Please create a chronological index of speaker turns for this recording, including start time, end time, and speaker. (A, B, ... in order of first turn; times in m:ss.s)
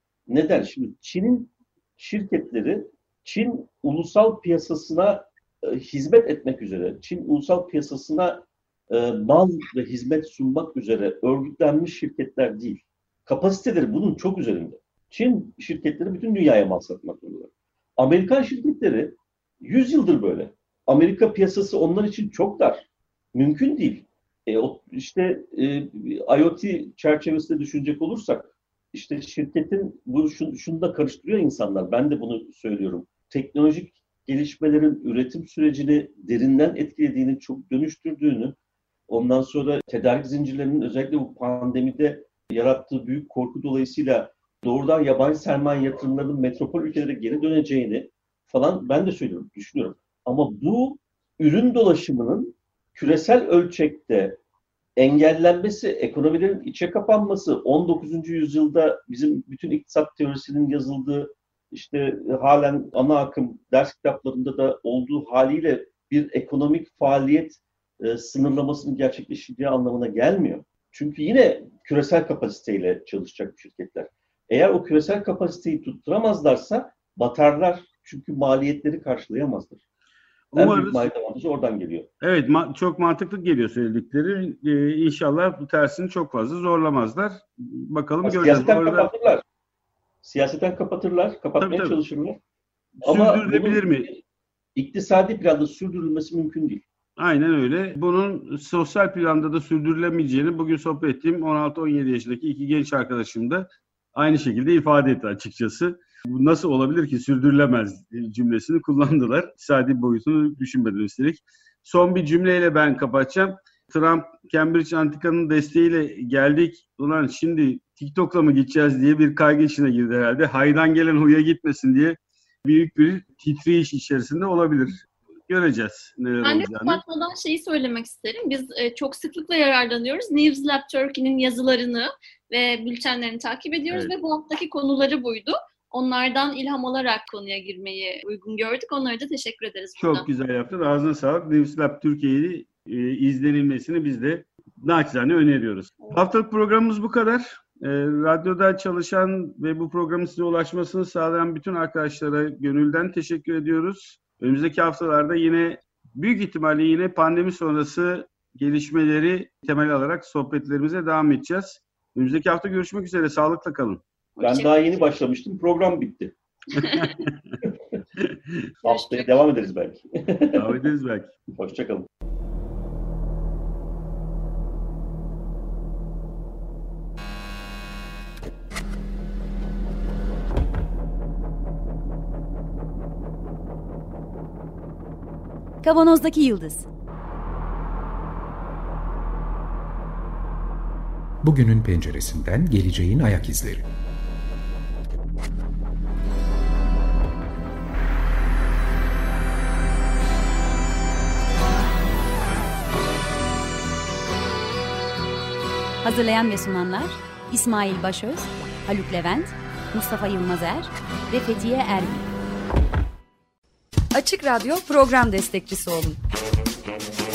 0:00.3-0:38.6 A
0:39.1-0:54.4 A
0:55.0-1:19.8 A
1:20.5-1:21.1 B
1:20.6-1:22.1 A
1:22.2-1:29.1 B
1:28.2-1:29.4 A
1:30.2-1:32.4 A
1:31.6-1:32.0 B
1:33.0-1:34.2 A
1:33.0-1:34.1 B
1:34.8-1:36.8 A
1:37.2-2:07.0 B
2:06.4-2:20.2 C
2:20.0-2:44.0 B
2:44.4-2:45.0 C
2:44.4-2:46.3 A
2:46.8-2:47.1 C
2:48.8-2:50.8 A
2:48.8-2:49.4 C
2:50.5-2:51.3 B
2:51.5-2:52.1 A
3:05.8-3:06.9 D
3:11.4-3:13.9 E
3:26.0-3:32.3 D
3:34.1-3:36.2 F